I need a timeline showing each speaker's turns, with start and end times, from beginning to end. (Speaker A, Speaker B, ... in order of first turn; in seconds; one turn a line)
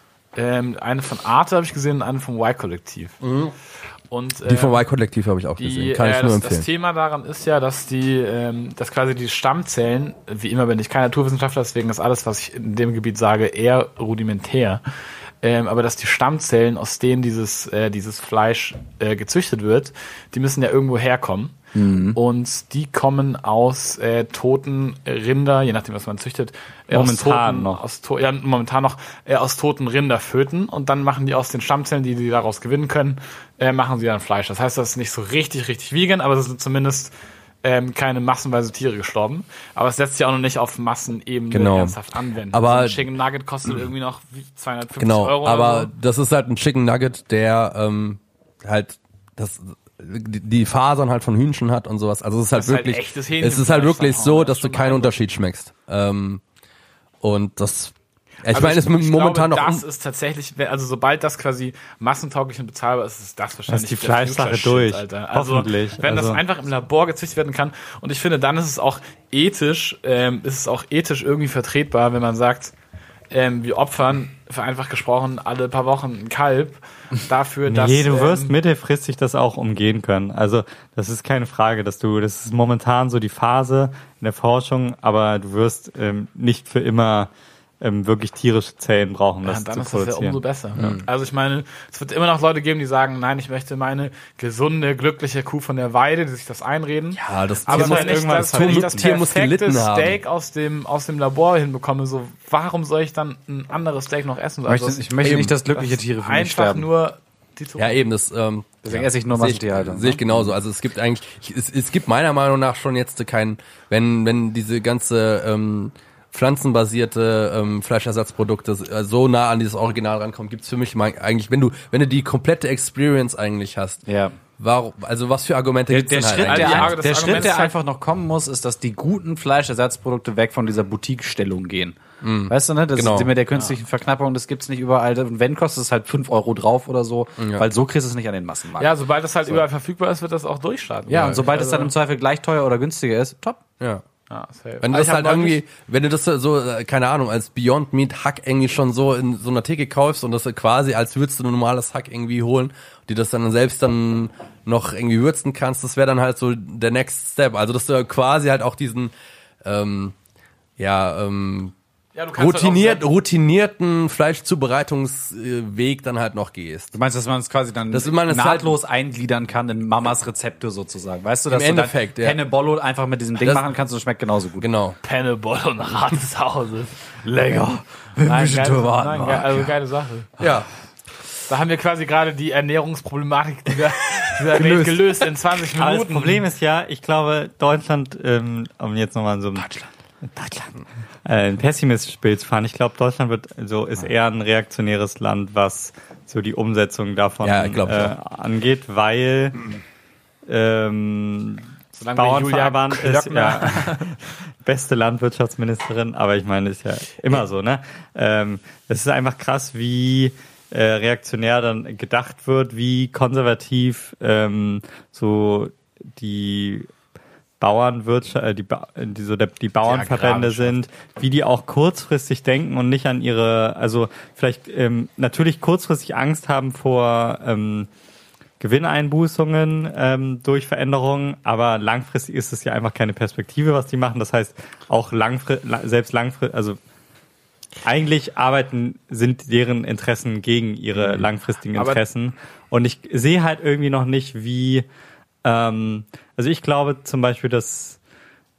Speaker A: 0.3-3.2
Speaker B: 3.2-3.5
Speaker A: 4.1-4.8
Speaker B: 4.5-6.7
Speaker A: 5.6-14.8
Speaker A: 15.4-21.6
Speaker C: 21.8-22.2
Speaker A: 22.1-45.9
Speaker D: 26.9-27.8
Speaker B: 41.5-42.0
Speaker B: 42.5-43.0
Speaker B: 45.0-56.4
Speaker A: 52.5-55.2
Speaker B: 57.2-59.8
Speaker A: 58.5-72.7
Speaker D: 63.7-66.4
Speaker A: 73.3-78.5
Speaker D: 77.7-87.3
Speaker D: 87.8-90.9
Speaker A: 89.4-108.0
Speaker B: 90.8-91.0
Speaker B: 97.2-100.2
Speaker D: 97.7-99.1
Speaker C: 104.7-106.9
Speaker B: 105.2-105.5
Speaker B: 107.8-124.0
Speaker C: 108.8-110.5
Speaker C: 124.1-124.4
Speaker B: 124.6-127.5
Speaker C: 125.9-138.9
Speaker A: 126.4-127.8
Speaker B: 132.2-133.3
Speaker B: 137.4-137.7
Speaker A: 138.8-141.9
Speaker C: 141.1-143.6
Speaker B: 141.1-141.4
Speaker A: 144.3-145.6
Speaker B: 144.8-159.1
Speaker B: 159.6-160.2
Speaker B: 160.8-161.7
Speaker A: 162.2-163.1
Speaker B: 162.4-166.9
Speaker C: 166.9-174.7
Speaker B: 167.9-168.8
Speaker B: 171.5-172.4
Speaker B: 173.4-173.7
Speaker B: 174.6-175.0
Speaker A: 175.0-177.1
Speaker C: 177.2-179.7
Speaker A: 178.2-180.3
Speaker B: 180.4-180.7
Speaker A: 181.5-186.4
Speaker B: 184.6-184.9
Speaker D: 185.8-199.7
Speaker B: 197.4-198.2
Speaker D: 200.5-216.9
Speaker A: 201.9-204.2
Speaker D: 217.6-227.9
Speaker C: 219.9-220.7
Speaker D: 228.6-236.8
Speaker D: 237.8-244.8
Speaker B: 241.0-241.2
Speaker A: 241.8-242.0
Speaker D: 245.4-248.0